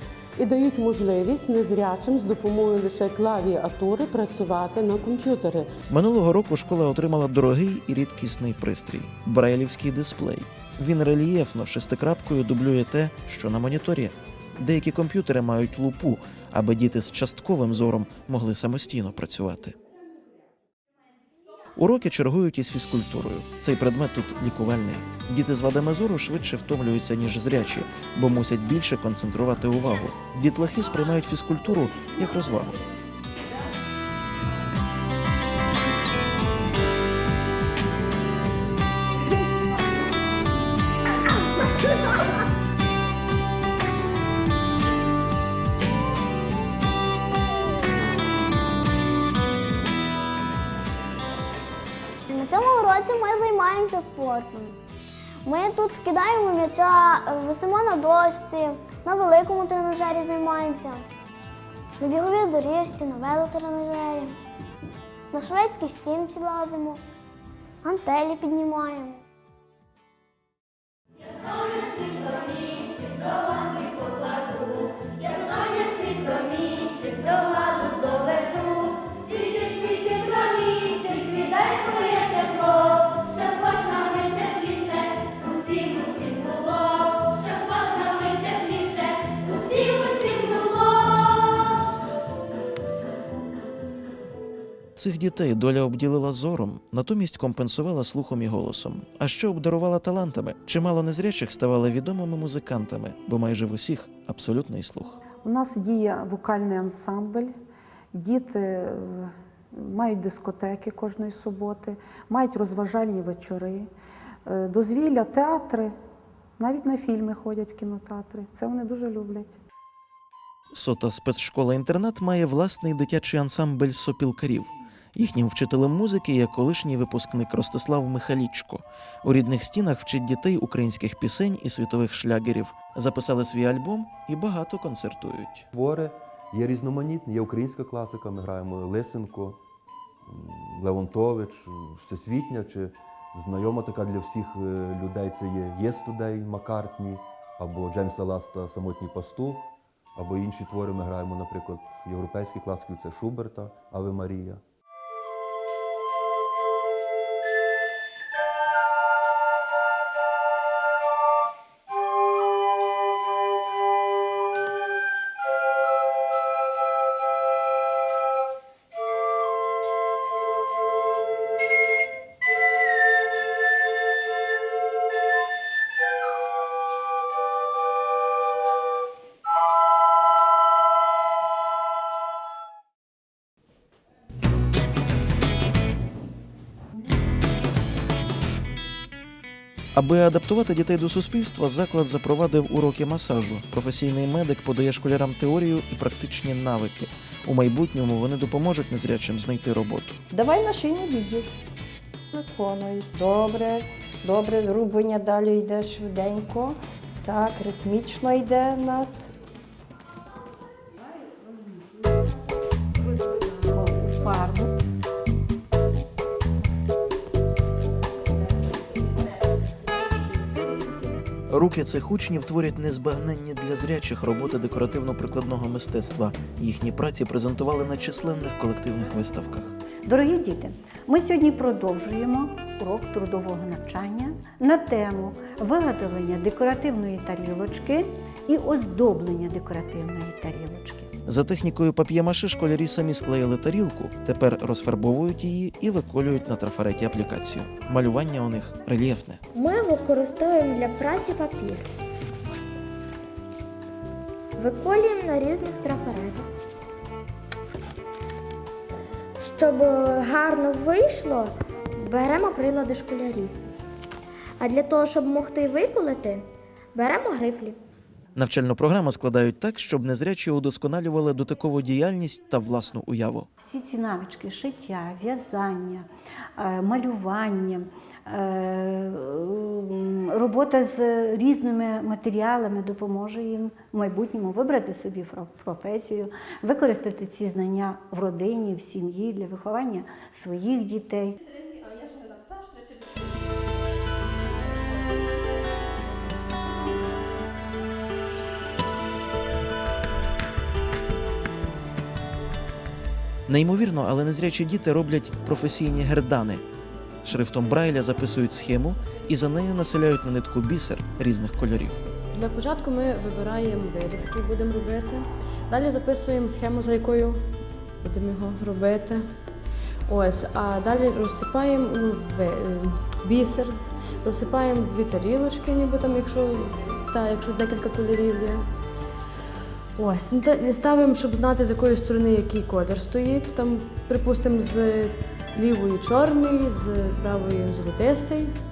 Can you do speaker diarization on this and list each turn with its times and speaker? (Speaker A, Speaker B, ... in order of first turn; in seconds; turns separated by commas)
Speaker A: 0.4-5.7, Speaker B: 5.9-19.8, Speaker B: 21.8-32.8, Speaker C: 52.3-54.8, Speaker C: 55.5-61.0, Speaker C: 62.0-64.4, Speaker C: 65.3-67.0, Speaker C: 67.8-69.2, Speaker B: 95.0-105.2, Speaker D: 105.4-107.5, Speaker D: 108.2-113.9, Speaker D: 114.5-115.9, Speaker D: 116.6-119.6, Speaker B: 120.7-135.7, Speaker E: 135.7-139.6, Speaker E: 140.3-154.6, Speaker B: 189.9-200.2, Speaker F: 200.3-201.5, Speaker F: 202.3-209.2, Speaker G: 213.8-214.6, Speaker B: 221.5-229.8, Speaker G: 230.0-241.1, Speaker B: 241.3-249.4, Speaker H: 249.5-251.8, Speaker H: 254.6-256.5, Speaker H: 259.4-263.6, Speaker H: 264.6-267.8, Speaker B: 268.4-273.5, Speaker G: 273.6-291.4, Speaker B: 303.5-306.6, Speaker B: 307.2-312.0, Speaker I: 312.3-317.4, Speaker I: 318.0-319.2, Speaker I: 320.1-328.6, Speaker I: 330.0-338.5